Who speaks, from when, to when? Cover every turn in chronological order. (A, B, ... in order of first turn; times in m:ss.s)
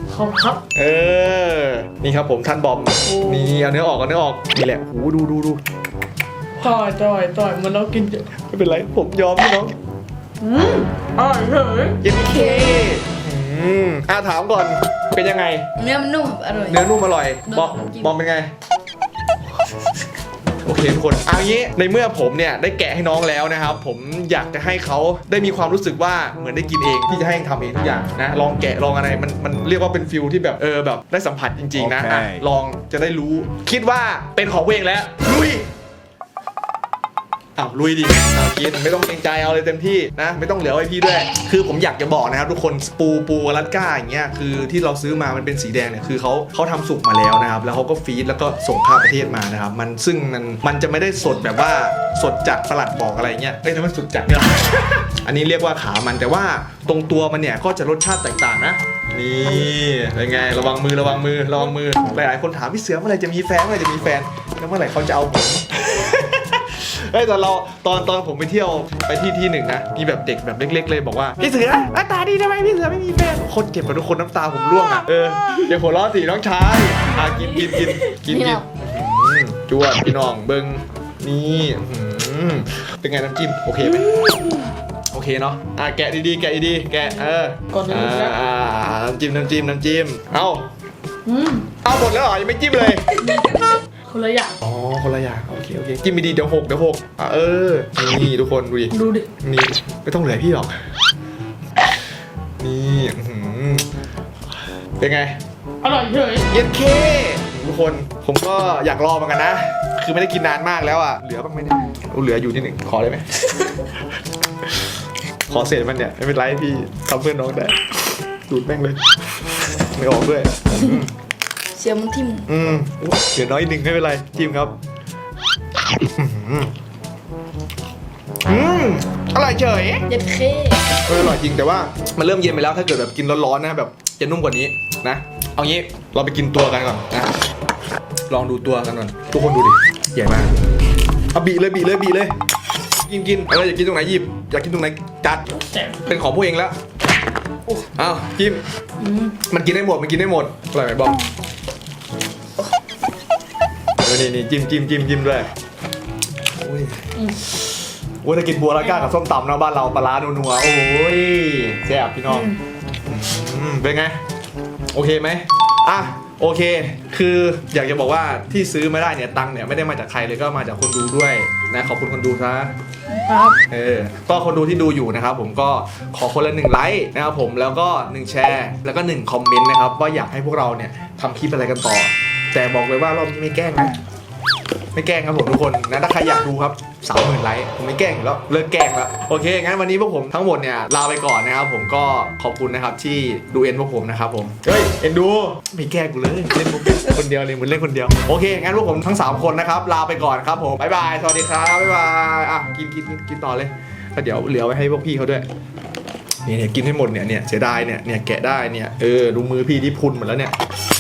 0:00.1-0:00.6 A
0:00.7-0:05.6 B
0:03.0-0:03.6 A
0:06.6-0:08.3 A
0:08.3-0:09.8 B
0:10.4-0:12.0 A
0:12.0-0:15.7 B
0:12.1-0:13.0 C
0:15.8-0:16.9 C
0:16.7-0:18.5 B
0:17.4-0:18.2 C
0:20.6-0:35.7 B
0:37.6-1:24.3 B
1:17.1-1:18.2 A
1:18.3-1:18.6 C
1:25.1-1:30.7 B
1:27.7-1:28.4 A
1:31.2-1:31.7 A
1:31.8-1:33.2 B
1:33.2-1:34.6 A
1:34.6-1:40.8 B
1:38.9-1:39.3 A
1:42.6-1:43.9 B
1:45.0-1:45.4 B
1:45.8-1:46.5 A
1:46.5-1:53.7 B
1:54.6-1:54.9 B
1:55.5-1:59.0 B
1:59.8-2:01.1 B
2:00.7-2:01.0 C
2:01.7-2:02.5 C
2:02.5-2:04.8 B
2:06.2-2:06.7 B
2:08.4-2:10.1 B
2:10.1-2:10.8 C
2:11.0-2:17.3 B
2:18.3-2:20.6 B
2:21.3-2:22.4 B
2:23.1-2:25.5 B
2:25.5-2:26.1 A
2:26.0-2:26.8 B
2:27.8-2:28.6 B
2:29.0-2:29.4 A
2:29.4-2:31.2 B
2:34.0-2:35.5 B
2:36.6-2:44.2 B
2:42.3-2:42.6 A
2:44.9-2:52.7 B
2:53.2-2:53.6 A
2:53.7-3:04.0 B
3:05.0-3:25.5 B
3:26.4-3:30.5 B